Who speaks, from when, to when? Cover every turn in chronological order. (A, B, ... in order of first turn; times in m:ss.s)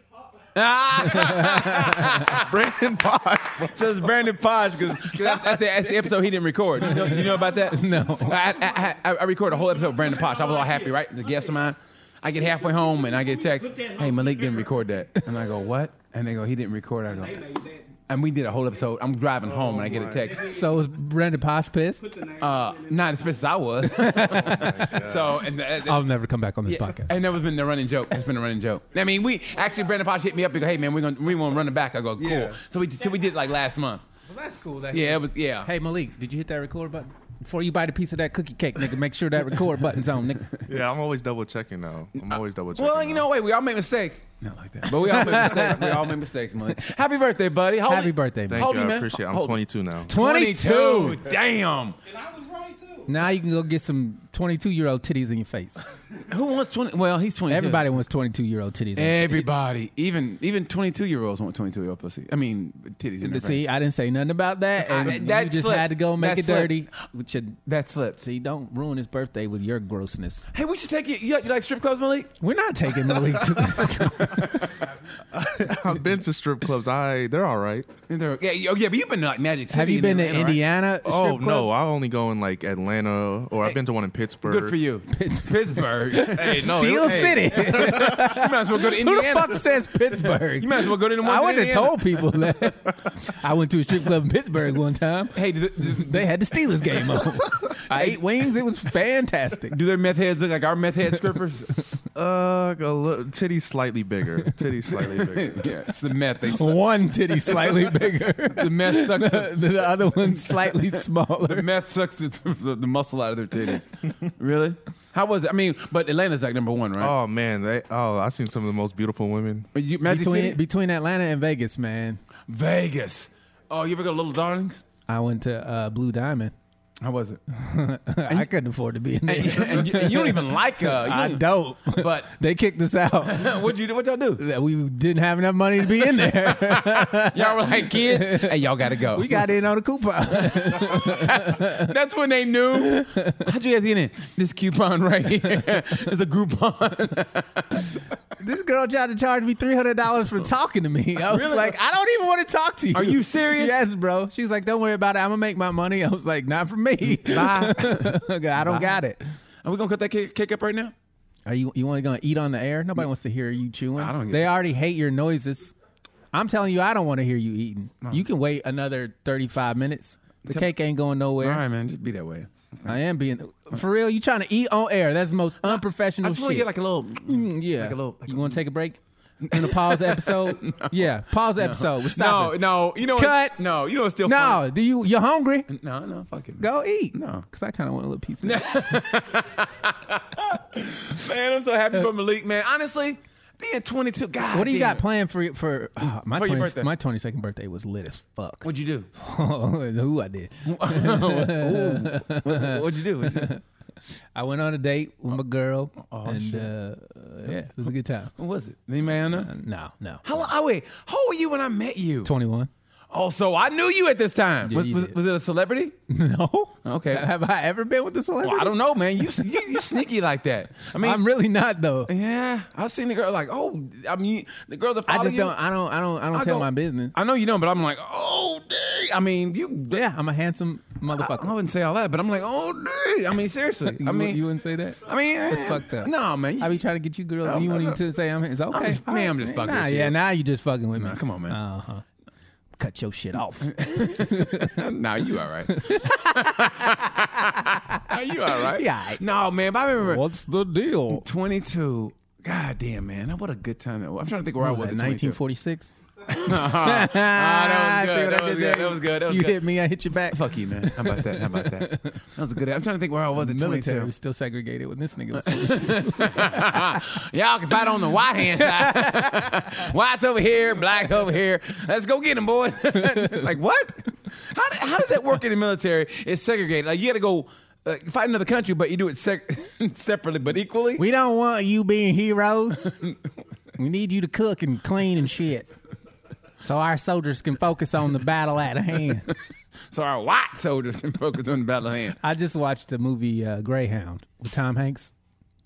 0:00.5-0:02.6 A
0:01.0-0:02.3 B
0:02.3-0:04.0 C
0:03.7-0:20.5 A
0:06.9-0:08.5 B
0:19.8-0:20.3 C
0:20.4-0:22.2 B
0:22.4-0:26.1 A
0:24.1-0:24.7 B
0:24.5-0:25.3 C
0:25.8-0:27.1 B
0:26.7-0:34.0 A
0:32.2-0:32.6 C
0:34.3-0:40.5 B
0:34.9-0:35.7 A
0:40.7-0:43.3 C
0:42.8-0:52.0 A
0:44.9-0:46.1 B
0:47.9-0:48.7 B
0:48.5-0:50.1 C
0:50.1-0:51.2 B
0:53.0-0:55.8 B
0:56.2-0:57.9 A
0:57.5-0:59.5 B
0:59.0-1:03.6 A
1:03.2-1:07.6 B
1:04.8-1:06.9 A
1:07.6-1:08.2 A
1:08.2-1:10.5 B
1:10.5-1:12.3 A
1:12.4-1:14.8 B
1:13.7-1:14.4 A
1:15.3-1:17.9 C
1:18.1-1:20.6 A
1:19.7-1:21.7 B
1:21.0-1:24.8 C
1:24.4-1:32.5 A
1:25.1-1:39.8 B
1:26.4-1:28.2 C
1:35.3-1:36.3 A
1:37.8-1:38.2 A
1:39.7-1:41.9 A
1:42.1-1:45.7 C
1:44.8-1:57.1 A
1:46.4-1:51.7 B
1:57.0-1:59.7 C
1:59.7-2:00.6 A
2:00.0-2:02.2 B
2:02.5-2:04.8 A
2:05.1-2:06.5 B
2:07.0-2:07.4 A
2:07.5-2:13.6 B
2:09.3-2:12.3 A
2:13.2-2:14.4 A
2:14.4-2:21.9 B
2:15.9-2:19.4 A
2:20.4-2:27.9 A
2:22.8-2:23.4 B
2:28.4-2:39.2 B
2:31.2-2:31.8 A
2:32.9-2:33.8 A
2:37.1-2:39.0 A
2:39.6-2:40.9 A
2:41.5-2:45.7 B
2:44.0-2:44.5 A
2:46.3-2:51.6 B
2:51.4-2:52.9 A
2:52.8-2:56.7 B
2:55.6-2:58.6 A
2:57.2-2:59.0 B
2:59.4-3:04.6 A
2:59.5-3:03.6 B
3:04.2-3:05.7 B
3:05.7-3:07.4 A
3:06.6-3:08.8 B
3:08.4-3:15.0 A
3:14.5-3:18.6 B
3:16.0-3:16.9 A
3:18.6-3:19.1 A
3:19.2-3:23.6 B
3:20.6-3:23.5 A
3:24.3-3:28.3 B
3:26.0-3:26.7 A
3:28.4-3:29.5 A
3:29.3-3:30.4 B
3:30.2-3:32.3 A
3:32.2-3:32.7 B
3:33.1-3:35.9 A
3:34.6-3:35.2 B
3:36.1-3:39.8 B
3:36.8-3:37.3 A
3:38.4-3:41.2 A
3:41.0-3:42.1 B
3:42.1-3:45.6 A
3:45.1-3:47.1 B
3:46.3-3:50.0 A
3:49.9-3:51.5 B
3:51.1-3:54.4 A
3:53.9-4:02.0 B
3:55.0-3:56.8 A
3:57.4-3:58.0 A
3:58.7-4:00.2 A
4:01.0-4:01.6 A
4:02.8-4:04.8 B
4:03.6-4:10.2 A
4:05.7-4:09.2 B
4:10.0-4:11.2 B
4:11.1-4:15.4 A
4:14.6-4:22.1 B
4:16.3-4:19.7 A
4:20.3-4:24.1 A
4:23.4-4:27.0 B
4:25.3-4:41.0 A
4:28.4-4:29.4 B
4:41.0-4:42.9 B
4:42.9-4:43.2 A
4:43.8-4:45.7 B
4:46.6-4:49.3 B
4:49.9-4:52.2 A
4:52.2-4:55.1 B